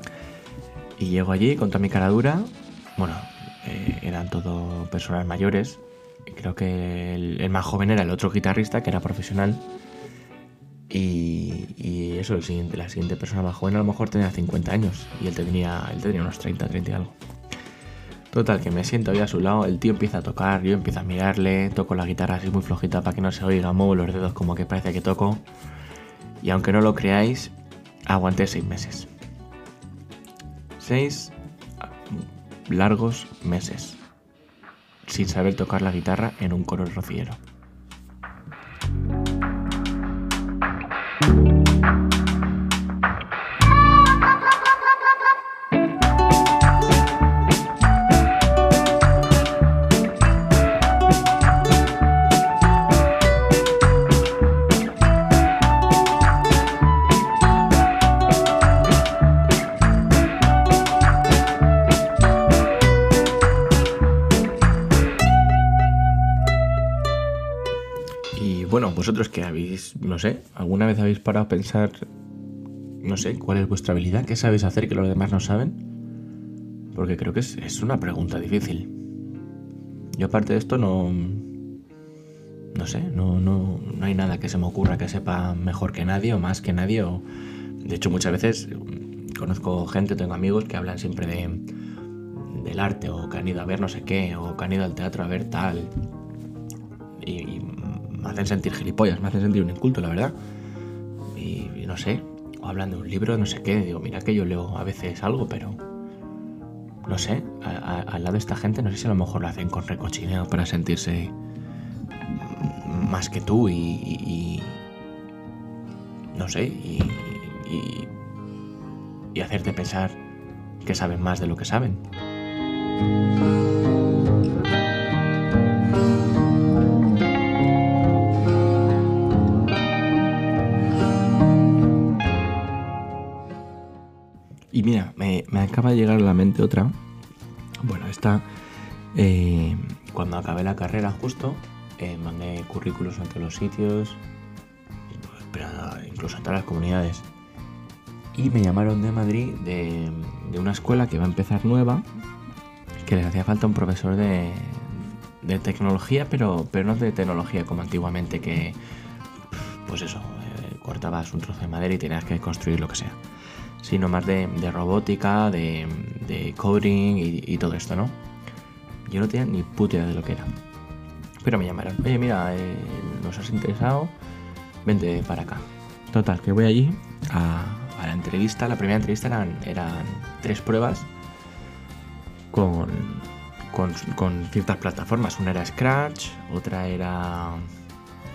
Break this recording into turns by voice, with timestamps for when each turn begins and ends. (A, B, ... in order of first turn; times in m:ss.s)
0:01.0-0:09.6 A
0:10.9-0:17.2 A
0:18.3-0:25.4 A
0:26.4-0:27.5 A
0:28.1-0:29.1 A
0:30.8-0:31.4 A
0:32.1-0:34.0 A
0:35.1-0:37.4 A
1:08.3-1:12.0 A
1:13.0-1:15.8 A
1:16.9-1:18.9 A
1:20.2-1:21.5 A
1:22.7-1:27.2 A
1:27.8-1:31.7 A
1:32.3-1:35.9 A
1:37.2-1:40.4 A
1:41.3-1:45.8 A
1:47.1-1:51.3 A
1:52.4-1:54.8 A
1:56.3-1:58.1 A
1:59.3-2:00.2 A
2:00.8-2:02.0 A
2:14.7-2:17.0 A
2:17.8-2:18.5 A
2:19.1-2:24.2 A
2:25.1-2:27.3 A
2:28.3-2:32.0 A
2:33.0-2:38.8 A
2:39.5-2:43.2 A
2:43.8-2:48.2 A
2:49.1-2:50.5 A
2:51.4-2:54.1 A
2:54.8-3:01.1 A
3:02.5-3:07.6 A